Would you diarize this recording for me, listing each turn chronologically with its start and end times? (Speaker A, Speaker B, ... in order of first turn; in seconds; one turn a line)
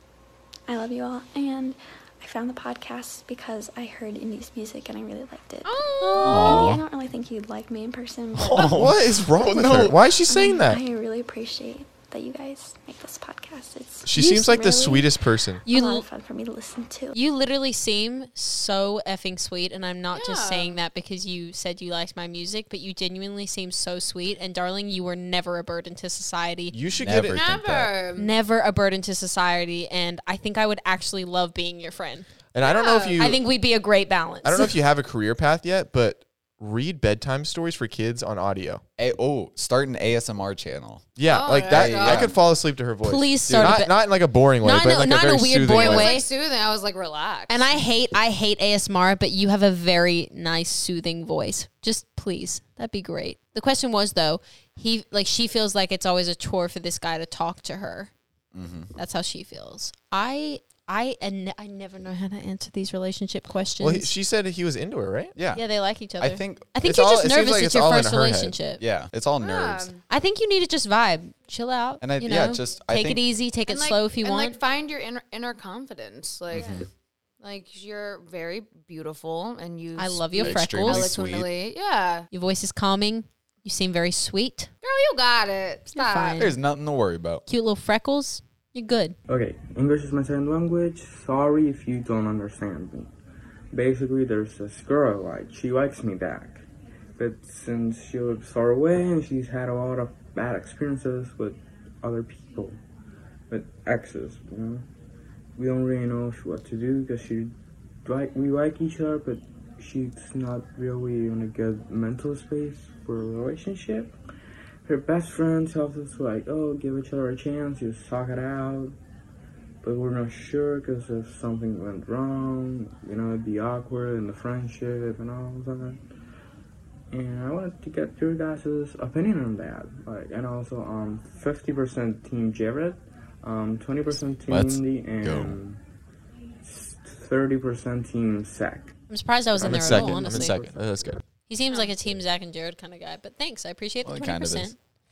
Speaker A: 0.7-8.9
Speaker B: 5.7-6.7
Speaker C: 5.8-6.4
Speaker D: 6.2-6.8
Speaker D: 8.4-10.0
Speaker E: 8.6-10.8
Speaker A: 10.3-17.2
Speaker E: 14.0-15.7
Speaker B: 15.7-16.1
Speaker B: 17.1-26.7
Speaker C: 20.1-20.8
Speaker E: 26.7-27.4
Speaker D: 27.0-27.9
Speaker C: 27.3-28.3
Speaker B: 28.2-32.3
Speaker E: 32.5-33.4
Speaker C: 32.6-33.3
Speaker B: 33.2-34.7
Speaker E: 34.4-38.8
Speaker D: 39.0-42.3
Speaker E: 41.2-46.1
Speaker C: 41.2-42.3
Speaker B: 43.0-46.3
Speaker D: 43.5-43.8
Speaker C: 45.7-47.7
Speaker B: 47.5-58.1
Speaker D: 58.5-58.9
Speaker B: 59.0-64.1
Speaker E: 63.8-65.3
Speaker D: 65.4-66.7
Speaker B: 65.5-68.8
Speaker E: 66.8-68.5
Speaker D: 68.8-69.9
Speaker C: 69.4-70.0
Speaker B: 70.1-74.6
Speaker D: 72.0-73.2
Speaker C: 73.7-76.9
Speaker D: 76.5-76.8
Speaker C: 77.4-82.3
Speaker B: 80.0-81.1
Speaker D: 80.4-81.5
Speaker B: 82.3-84.7
Speaker C: 84.8-86.5
Speaker B: 85.9-86.5
Speaker D: 86.4-87.4
Speaker B: 87.5-89.2
Speaker F: 89.3-93.1
Speaker F: 93.7-96.7
Speaker F: 97.2-102.8
Speaker F: 103.5-104.9
Speaker F: 105.6-107.5
Speaker F: 108.0-114.2
Speaker F: 114.8-119.0
Speaker F: 119.8-126.0
Speaker F: 127.1-135.8
Speaker D: 134.5-135.6
Speaker F: 136.6-138.9
Speaker B: 139.1-140.6
Speaker F: 139.6-140.8
Speaker E: 139.6-141.2
Speaker D: 139.9-140.7
Speaker B: 141.5-144.8
Speaker D: 144.0-144.8